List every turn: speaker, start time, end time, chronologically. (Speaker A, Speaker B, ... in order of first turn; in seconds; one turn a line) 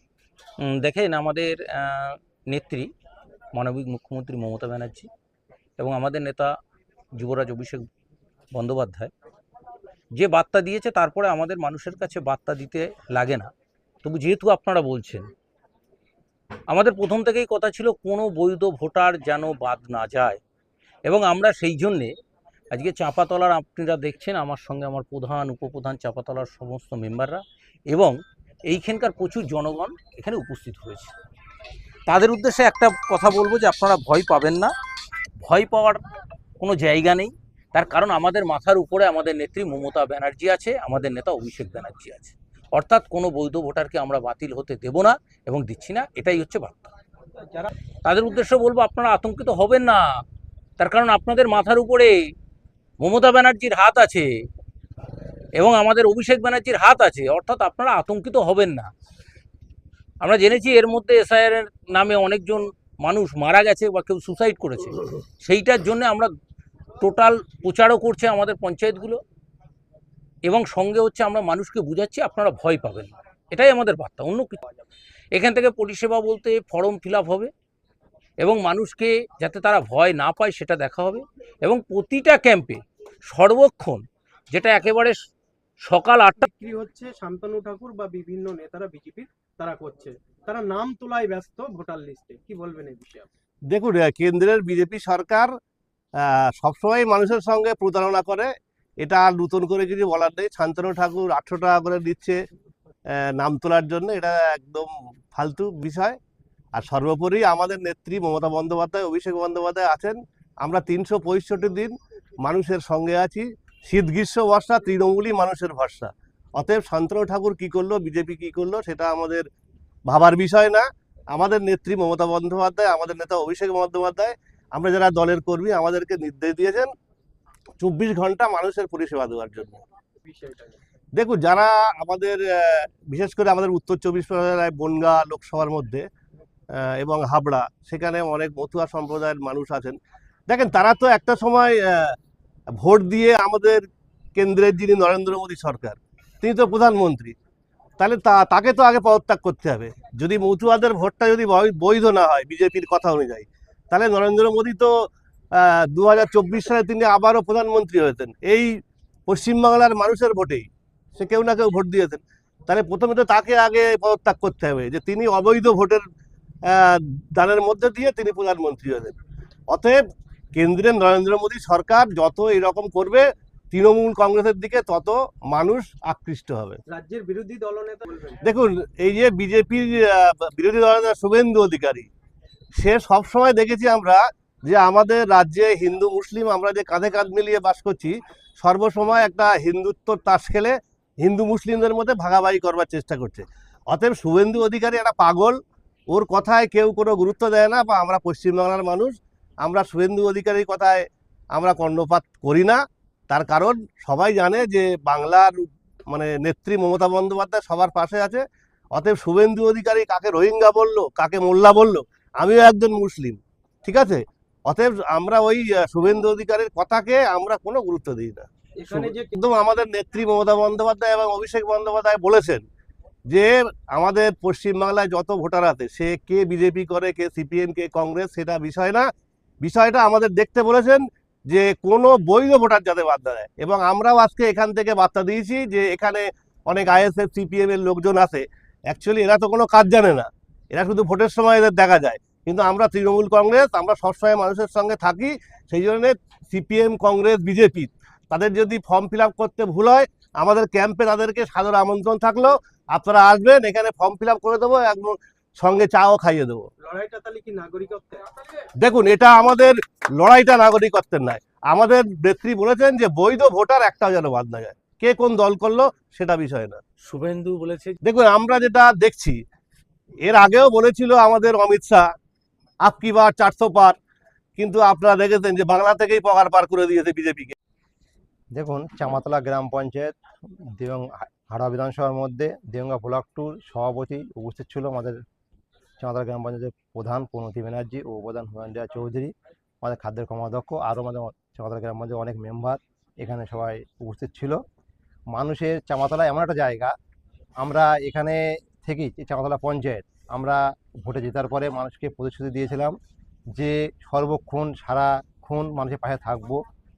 Speaker A: 0.6-2.9
Speaker A: 3.6-5.1
Speaker A: 5.8-6.5
Speaker A: 7.2-7.9
Speaker A: 8.6-9.1
Speaker A: 10.2-13.5
Speaker A: 14.0-15.3
Speaker A: 16.7-20.4
Speaker A: 21.1-22.1
Speaker A: 22.7-28.2
Speaker A: 28.7-31.1
Speaker A: 32.1-34.7
Speaker A: 35.4-36.0
Speaker A: 36.6-46.9
Speaker B: 47.4-47.7
Speaker A: 48.0-50.0
Speaker A: 50.8-52.1
Speaker A: 53.0-54.3
Speaker A: 55.6-58.9
Speaker A: 60.2-66.3
Speaker A: 67.0-69.2
Speaker A: 70.5-74.6
Speaker A: 75.3-77.5
Speaker A: 78.4-85.2
Speaker A: 85.9-86.5
Speaker B: 86.4-93.3
Speaker C: 93.7-95.5
Speaker C: 96.2-102.4
Speaker C: 103.1-106.2
Speaker C: 106.7-119.5
Speaker C: 120.1-126.9
Speaker C: 127.8-129.8
Speaker B: 130.2-130.8
Speaker C: 131.2-136.1
Speaker C: 136.7-142.2
Speaker C: 142.7-143.8
Speaker C: 144.4-147.4
Speaker C: 148.0-166.1
Speaker C: 166.6-169.2
Speaker C: 169.7-170.0
Speaker C: 170.6-176.8
Speaker B: 176.9-178.4
Speaker C: 178.4-182.1
Speaker C: 182.8-195.6
Speaker C: 196.1-202.8
Speaker C: 203.3-208.4
Speaker C: 208.9-222.7
Speaker B: 218.8-219.4
Speaker C: 223.3-229.1
Speaker C: 229.6-256.7
Speaker B: 256.8-258.7
Speaker C: 258.8-266.8
Speaker A: 267.0-268.0
Speaker C: 268.0-269.4
Speaker C: 270.2-272.1
Speaker C: 272.8-274.0
Speaker C: 274.6-277.6
Speaker D: 278.6-285.2
Speaker D: 286.0-294.6
Speaker D: 295.3-296.9
Speaker D: 297.6-303.0
Speaker D: 303.6-306.6